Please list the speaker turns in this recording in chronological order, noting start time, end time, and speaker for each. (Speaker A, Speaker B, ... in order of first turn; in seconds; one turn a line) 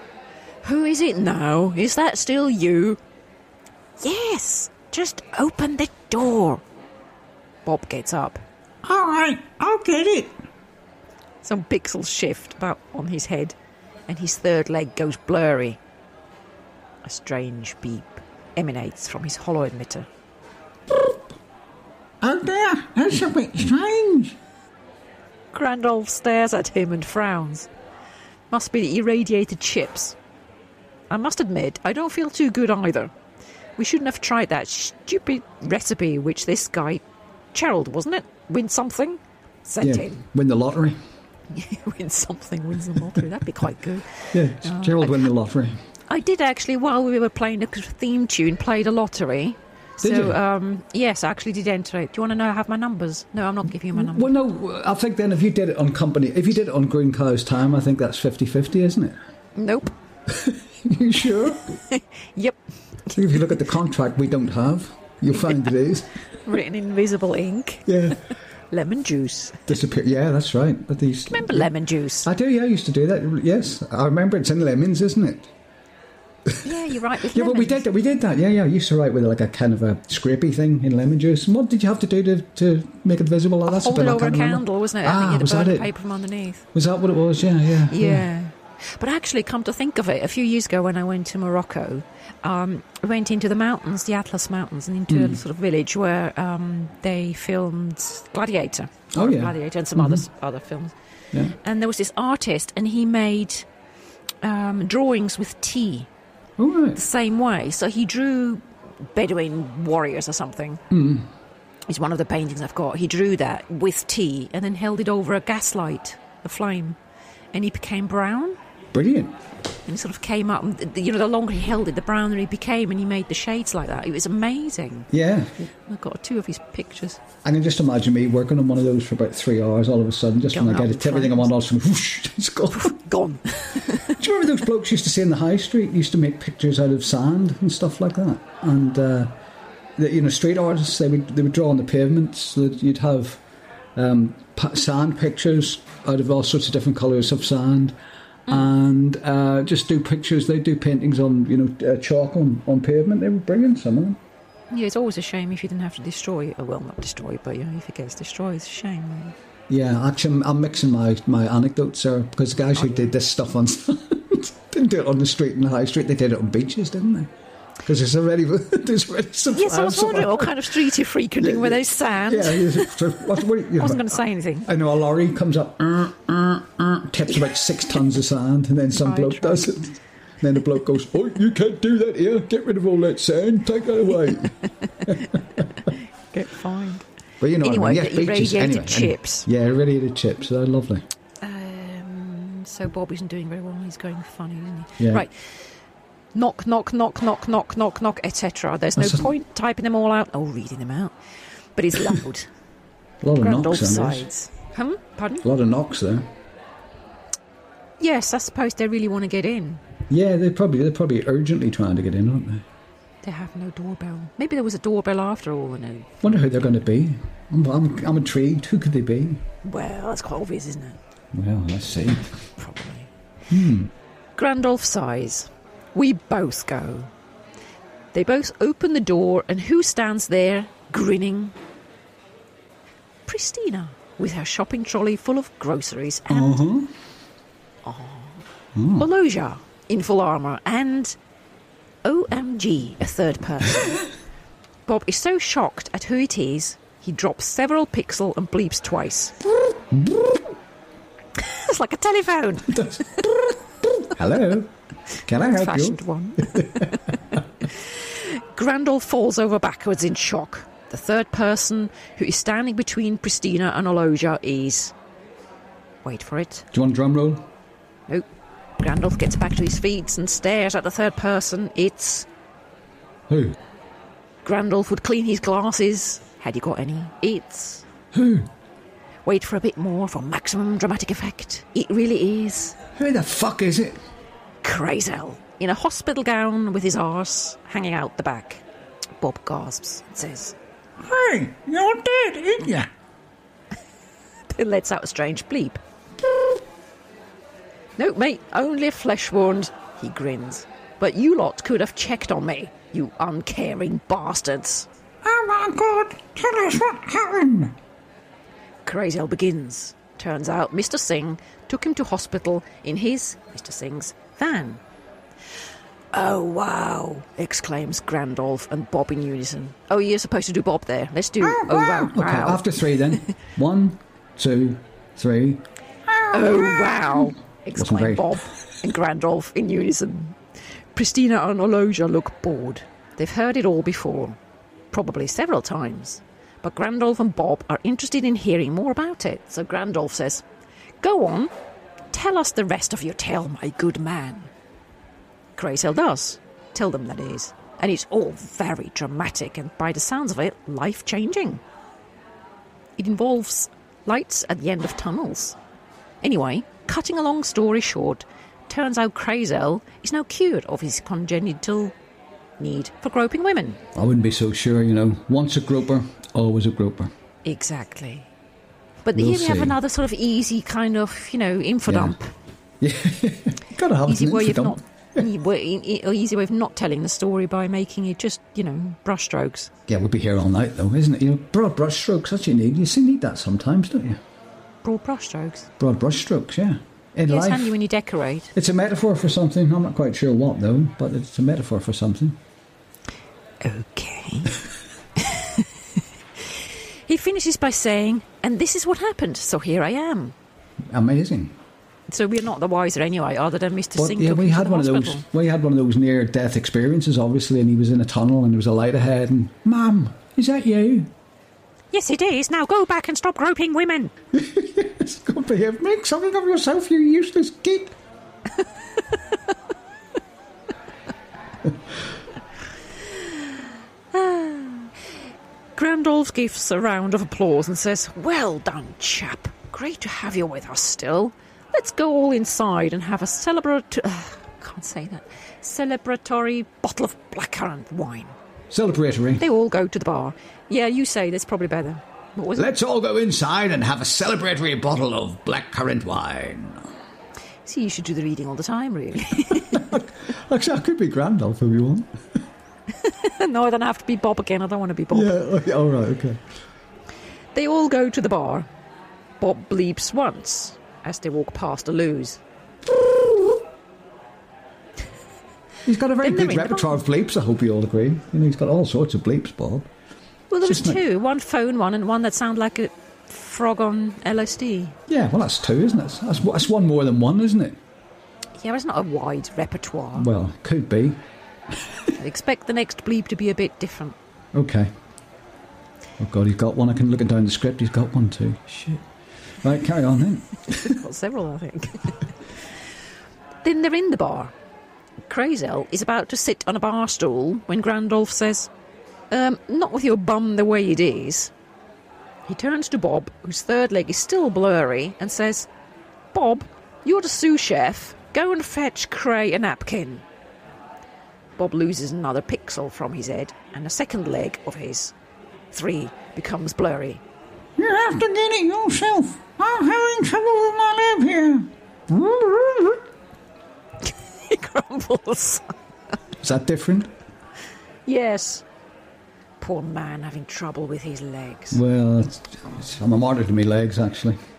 Speaker A: 0.6-3.0
Speaker A: 4.0-6.6
Speaker A: 7.7-8.4
Speaker B: 8.8-10.4
Speaker A: 11.4-13.6
Speaker A: 14.1-15.8
Speaker A: 17.0-20.1
Speaker B: 22.2-24.4
Speaker A: 25.5-27.7
Speaker A: 28.5-30.2
Speaker A: 31.1-33.1
Speaker A: 33.8-37.0
Speaker A: 37.5-40.2
Speaker C: 39.8-41.0
Speaker A: 41.5-45.3
Speaker C: 44.3-45.8
Speaker A: 46.1-54.3
Speaker C: 50.0-50.4
Speaker C: 53.9-59.2
Speaker A: 59.6-59.9
Speaker C: 60.3-61.8
Speaker A: 61.7-63.3
Speaker C: 63.1-66.1
Speaker A: 66.4-68.1
Speaker C: 67.9-68.2
Speaker A: 68.7-69.7
Speaker C: 69.7-71.7
Speaker A: 71.3-72.3
Speaker C: 72.2-75.5
Speaker A: 76.6-77.8
Speaker C: 77.3-85.9
Speaker A: 83.7-86.7
Speaker C: 86.7-88.3
Speaker A: 87.9-100.9
Speaker C: 95.1-95.4
Speaker C: 99.1-100.2
Speaker A: 101.5-103.7
Speaker A: 104.4-106.1
Speaker C: 106.6-107.0
Speaker A: 107.0-108.6
Speaker A: 109.1-110.8
Speaker C: 110.9-111.3
Speaker A: 111.9-117.0
Speaker A: 117.5-118.6
Speaker C: 118.9-119.4
Speaker A: 119.9-125.1
Speaker C: 125.1-125.5
Speaker A: 125.6-127.2
Speaker C: 127.4-133.0
Speaker A: 130.5-131.5
Speaker A: 132.7-134.1
Speaker C: 134.0-139.3
Speaker C: 140.0-143.4
Speaker C: 144.0-148.0
Speaker C: 148.5-154.2
Speaker A: 154.7-159.3
Speaker C: 159.7-167.3
Speaker C: 167.8-170.7
Speaker A: 169.5-173.0
Speaker C: 171.4-184.5
Speaker A: 173.8-174.7
Speaker A: 178.9-179.9
Speaker C: 185.1-185.6
Speaker A: 186.3-187.0
Speaker C: 187.4-191.1
Speaker A: 187.6-189.5
Speaker A: 191.4-195.3
Speaker C: 195.0-195.3
Speaker A: 196.3-201.2
Speaker C: 199.0-199.3
Speaker A: 201.8-202.5
Speaker C: 203.2-204.3
Speaker A: 203.4-205.5
Speaker C: 205.4-206.3
Speaker A: 208.0-209.8
Speaker C: 210.1-212.7
Speaker A: 213.2-216.3
Speaker C: 216.2-219.4
Speaker A: 219.6-221.0
Speaker C: 221.3-222.3
Speaker A: 222.6-223.1
Speaker C: 223.5-223.9
Speaker A: 224.4-227.1
Speaker A: 228.1-231.6
Speaker A: 233.3-236.6
Speaker C: 236.3-236.9
Speaker A: 237.8-238.4
Speaker C: 238.8-239.1
Speaker A: 238.9-241.2
Speaker A: 242.0-244.0
Speaker A: 244.9-249.4
Speaker C: 249.9-250.4
Speaker A: 251.3-253.2
Speaker C: 252.7-254.7
Speaker C: 255.2-256.9
Speaker A: 255.3-264.9
Speaker A: 266.0-266.7
Speaker C: 266.7-267.5
Speaker A: 268.8-272.3
Speaker C: 273.3-273.6
Speaker A: 274.4-277.9
Speaker C: 278.1-278.5
Speaker A: 279.2-282.8
Speaker C: 283.0-284.0
Speaker A: 284.6-288.6
Speaker A: 289.2-290.6
Speaker B: 291.0-292.9
Speaker A: 294.5-295.8
Speaker A: 298.0-304.9
Speaker B: 305.2-307.7
Speaker A: 308.9-314.8
Speaker A: 316.1-322.8
Speaker C: 321.6-325.6
Speaker B: 326.1-326.9
Speaker A: 326.3-330.4
Speaker C: 327.8-328.4
Speaker A: 330.9-334.4
Speaker A: 334.9-340.4
Speaker A: 341.0-341.5
Speaker A: 342.1-344.5
Speaker A: 345.6-351.6
Speaker A: 353.0-355.6
Speaker A: 356.2-361.9
Speaker A: 362.6-363.8
Speaker C: 363.9-367.1
Speaker A: 367.4-368.3
Speaker A: 369.0-372.3
Speaker C: 369.1-369.8
Speaker C: 371.9-372.2
Speaker C: 372.8-375.3
Speaker A: 374.1-379.7
Speaker C: 379.9-384.2
Speaker A: 384.8-385.7
Speaker C: 385.8-387.8
Speaker A: 387.3-388.5
Speaker C: 388.5-392.4
Speaker A: 393.6-394.6
Speaker A: 395.2-395.7
Speaker A: 397.1-400.4
Speaker C: 400.9-401.6
Speaker A: 402.1-405.2
Speaker C: 404.0-411.1
Speaker A: 411.9-414.1
Speaker C: 414.3-418.0
Speaker A: 423.1-423.6
Speaker A: 424.1-424.9
Speaker A: 425.8-438.4
Speaker C: 438.7-439.4
Speaker A: 439.4-442.7
Speaker C: 442.6-446.9
Speaker A: 447.6-449.9
Speaker C: 449.7-452.1
Speaker A: 453.0-455.3
Speaker C: 455.1-456.4
Speaker A: 457.6-458.7
Speaker A: 459.4-462.4
Speaker C: 465.9-469.9
Speaker A: 466.2-467.0
Speaker A: 470.5-475.0
Speaker C: 470.6-471.0
Speaker C: 475.1-477.8
Speaker A: 478.6-480.3
Speaker C: 480.1-481.2
Speaker A: 482.2-484.2
Speaker C: 484.5-484.9
Speaker C: 486.2-489.0
Speaker C: 489.6-491.0
Speaker A: 490.7-492.2
Speaker A: 493.6-494.5
Speaker A: 495.3-498.7
Speaker A: 499.3-501.5
Speaker A: 502.5-505.7
Speaker A: 506.3-510.2
Speaker A: 511.6-515.1
Speaker A: 515.7-517.2
Speaker B: 517.8-523.0
Speaker A: 524.0-525.8
Speaker C: 526.4-527.1
Speaker A: 528.1-528.6
Speaker A: 529.6-531.8
Speaker C: 531.7-534.4